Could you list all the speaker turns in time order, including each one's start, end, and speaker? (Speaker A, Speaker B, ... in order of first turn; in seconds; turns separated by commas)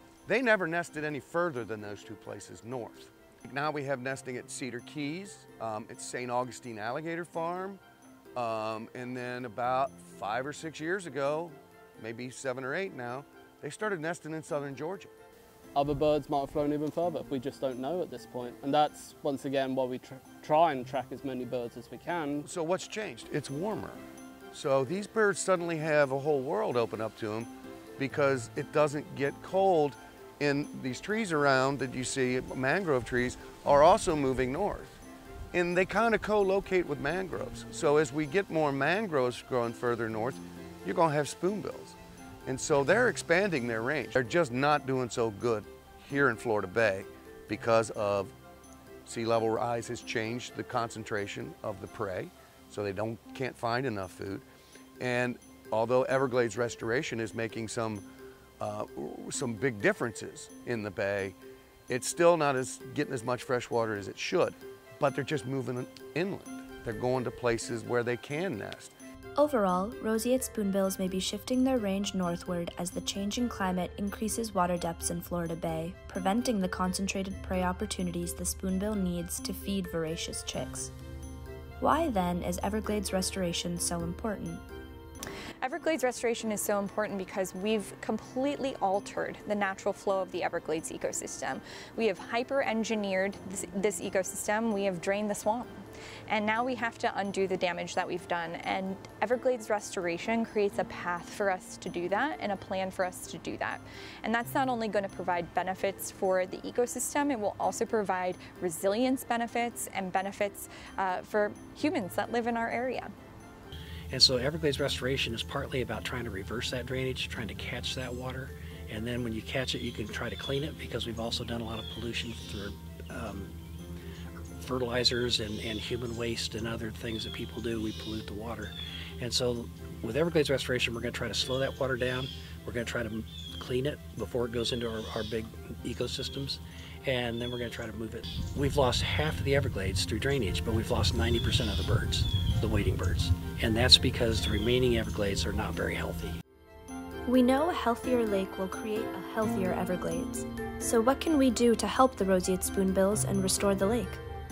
Speaker A: 0.2-7.8, Speaker A: 8.3-15.1, Speaker B: 15.7-22.4, Speaker A: 22.4-35.0, Speaker A: 35.5-48.3, Speaker A: 49.0-54.4, Speaker A: 55.0-58.0, Speaker A: 58.6-61.4, Speaker A: 61.9-68.9, Speaker C: 69.4-80.9, Speaker C: 81.8-84.6, Speaker D: 85.6-113.1, Speaker E: 114.1-123.5, Speaker E: 124.4-146.4, Speaker C: 147.3-154.2